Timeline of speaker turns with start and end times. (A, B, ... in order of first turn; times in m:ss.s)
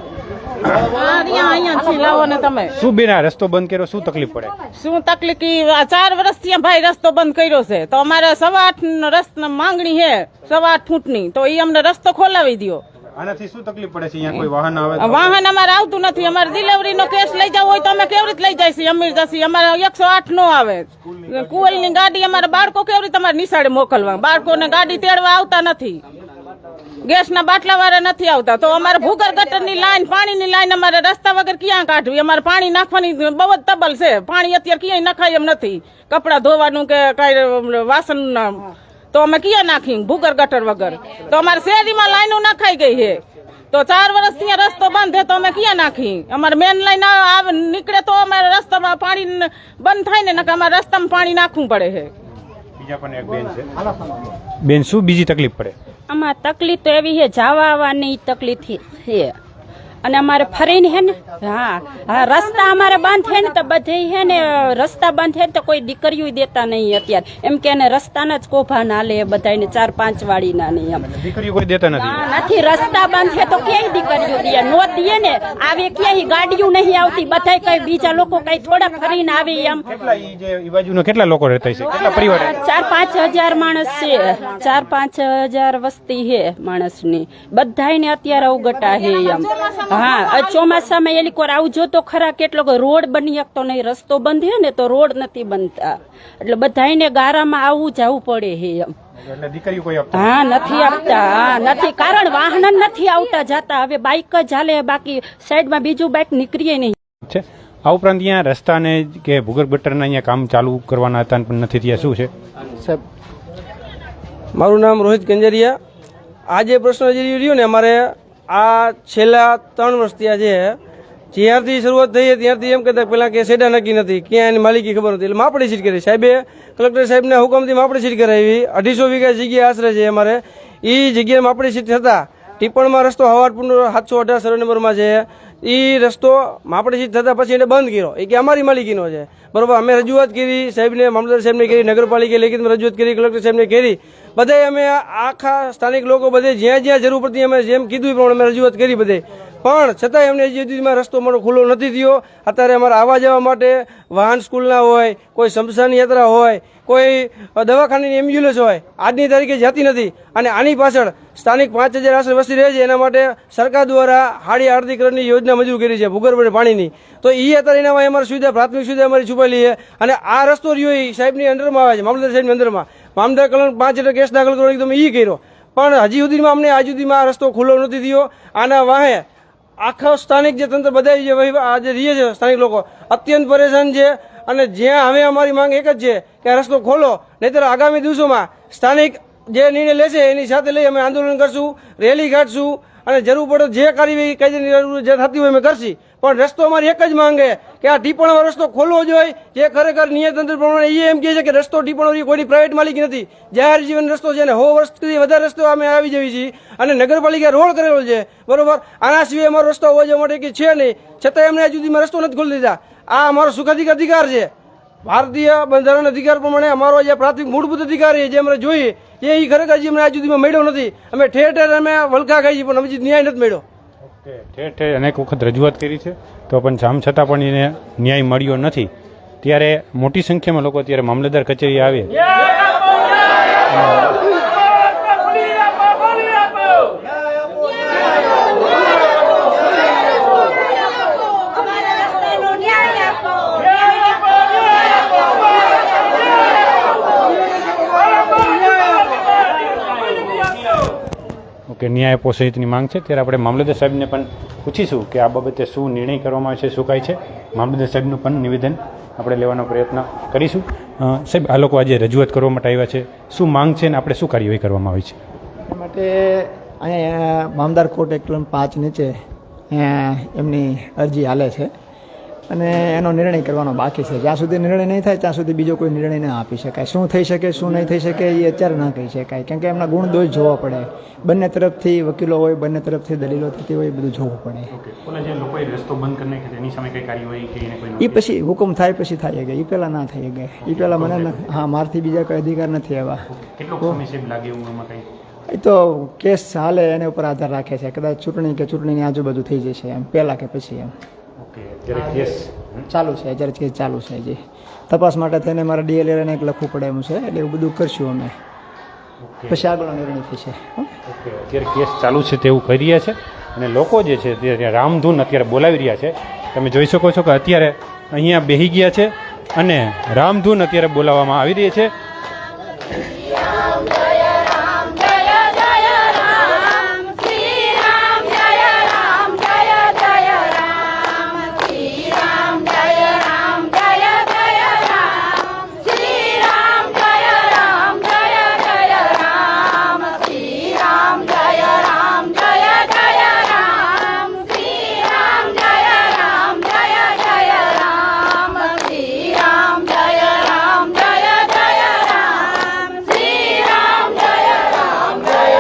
0:00.7-0:02.7 A
0:02.8-0:04.6 B
0:04.7-0:12.8 A
0:13.2-0:15.3 B
0:15.0-0:26.0 A
0:27.0-0:43.2 A
0:43.7-0:52.1 A
0:52.8-0:53.7 B
0:54.6-0:55.7 B
0:56.1-0:59.3 C
1:00.0-1:11.0 C
1:11.0-1:12.3 B
1:12.0-1:19.8 C
1:19.9-1:22.6 B
1:22.4-1:38.9 C
1:28.9-1:30.8 A
1:39.2-1:40.4 B
1:40.2-1:46.9 C
1:47.3-1:52.3 B
1:54.5-1:55.8 D
1:56.5-2:00.8 D
2:01.3-2:59.2 D
2:59.8-3:34.5 D
3:35.0-3:43.6 D
3:44.1-3:48.9 B
3:49.4-3:52.1 B
3:53.7-3:54.1 B
4:11.7-4:25.2 B
4:25.7-4:29.1 E
4:29.7-4:31.7 E
4:32.5-4:44.7 E
4:44.7-4:48.2 B
4:48.0-4:53.2 E
4:50.6-4:51.5 B
4:53.3-4:55.0 B
4:55.5-5:00.9 E
5:01.4-5:02.8 B
5:01.9-5:04.4 E
5:04.9-5:08.3 E
5:09.2-5:09.7 B
5:09.5-5:10.9 E
5:11.1-5:21.9 B